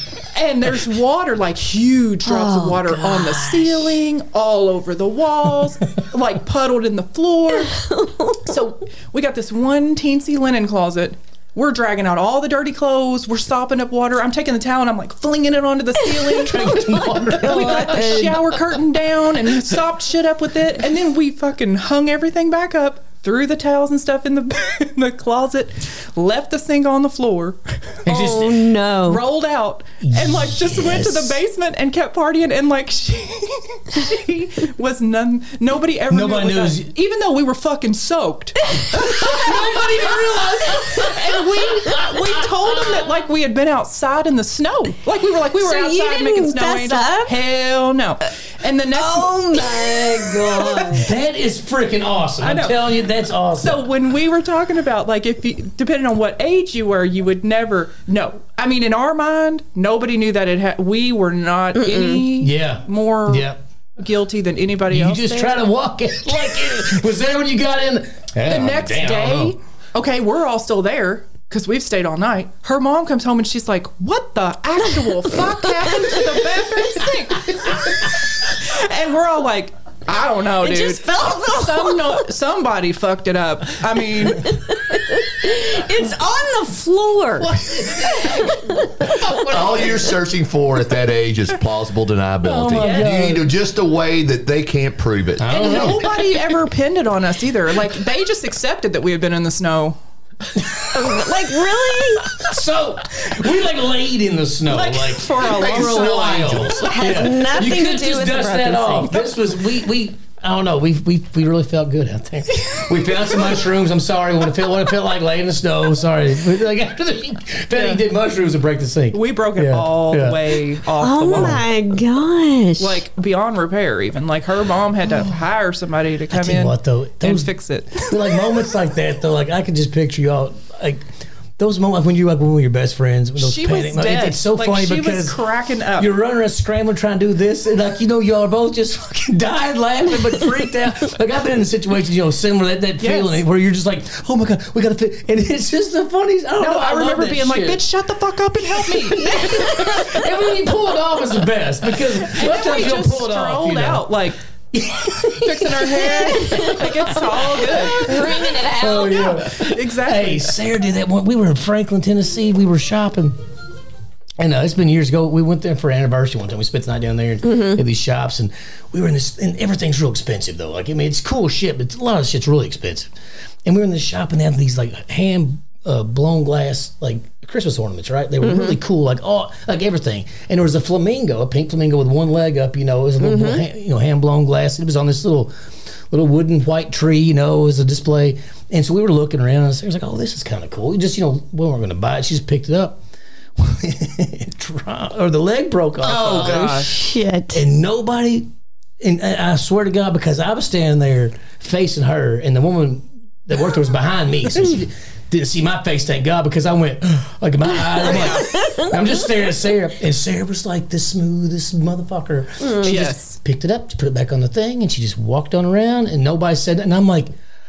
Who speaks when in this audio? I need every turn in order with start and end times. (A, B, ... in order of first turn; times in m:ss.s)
0:00.1-0:07.7 A
0:02.2-0:03.9 B
0:07.7-0:08.4 B
0:08.3-0:50.9 A
0:16.4-0:18.3 C
0:17.4-0:18.6 B
0:28.0-0:29.2 B
0:30.0-0:31.4 C
0:36.1-0:36.9 C
0:38.7-0:39.6 B
0:39.0-0:42.3 C
0:45.6-0:47.3 B
0:48.9-0:51.1 B
0:50.0-0:50.3 C
0:50.9-0:53.8 C
0:52.4-0:52.9 A
0:53.5-1:05.6 A
1:01.8-1:02.2 B
1:02.4-1:03.6 C
1:04.9-1:09.5 C
1:08.4-1:24.6 A
1:20.6-1:22.2 B
1:24.3-1:29.3 B
1:27.4-1:30.1 C
1:29.5-1:36.0 D
1:32.4-1:33.5 C
1:35.4-1:36.2 C
1:35.5-1:40.0 A
1:40.6-1:41.2 C
1:40.9-1:42.3 B
1:42.3-2:00.4 C
1:44.7-1:46.6 A
1:45.4-1:47.2 D
1:46.9-1:49.2 B
1:57.7-1:58.0 A
1:59.1-2:01.7 A
2:01.0-2:03.0 B
2:01.3-2:01.6 C
2:02.8-2:08.4 A
2:06.3-2:11.0 C
2:11.6-2:15.4 C
2:13.4-2:16.1 A
2:16.0-2:27.8 C
2:23.0-2:23.4 A
2:26.6-2:30.0 A
2:28.7-2:34.2 C
2:29.4-2:30.2 B
2:31.9-2:34.4 A
2:34.7-2:43.4 C
2:35.2-2:40.6 A
2:36.4-2:36.7 B
2:44.4-2:53.1 C
2:47.4-2:47.8 B
2:53.6-3:05.5 C
2:58.4-2:58.8 B
3:03.2-3:03.6 B
3:06.1-3:13.0 C
3:13.6-3:16.9 C
3:16.0-3:16.9 A
3:16.1-3:17.6 B
3:17.5-3:18.5 C
3:19.0-3:37.3 C
3:28.0-3:28.4 A
3:28.2-3:28.8 B
3:32.6-3:33.0 B
3:32.8-3:33.4 A